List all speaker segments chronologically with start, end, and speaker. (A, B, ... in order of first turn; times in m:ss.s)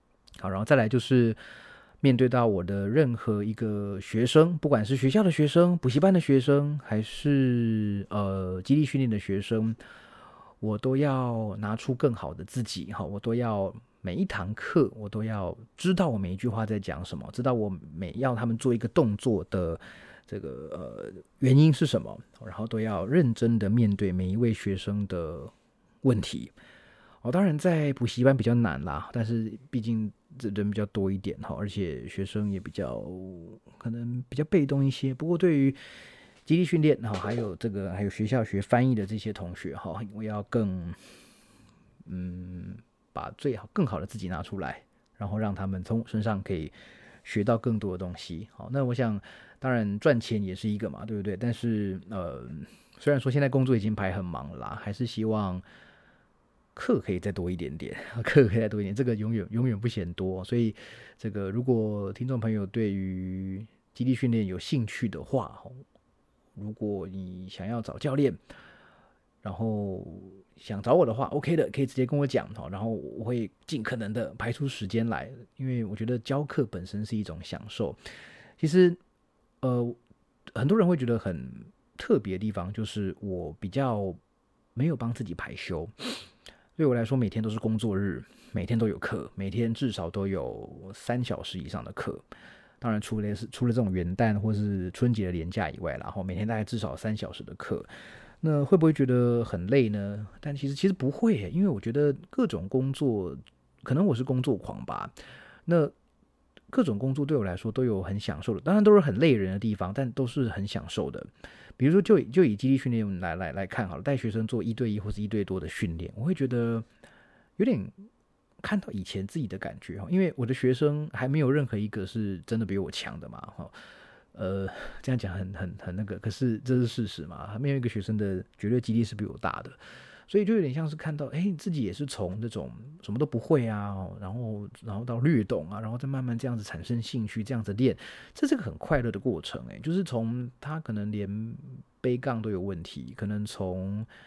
0:00.4-0:01.4 A
0:02.0-0:09.8 A
0:10.6-0:26.5 A
0:27.2-0:35.8 A
0:36.4-0:41.1 A
0:42.0-0:46.7 A
0:47.2-0:55.6 A
0:56.7-1:05.8 A
1:06.6-1:08.4 A
1:09.4-1:18.0 A
1:18.6-1:19.0 A
1:19.6-1:20.0 A
1:20.5-1:24.2 A
1:24.7-1:32.2 A
1:32.8-1:37.9 A
1:38.4-1:45.1 A
1:45.6-1:45.9 A
1:46.7-1:51.3 A
1:51.8-1:56.8 A
1:57.6-1:58.0 A
1:58.6-2:03.7 A
2:04.3-2:09.8 A
2:10.3-2:24.1 A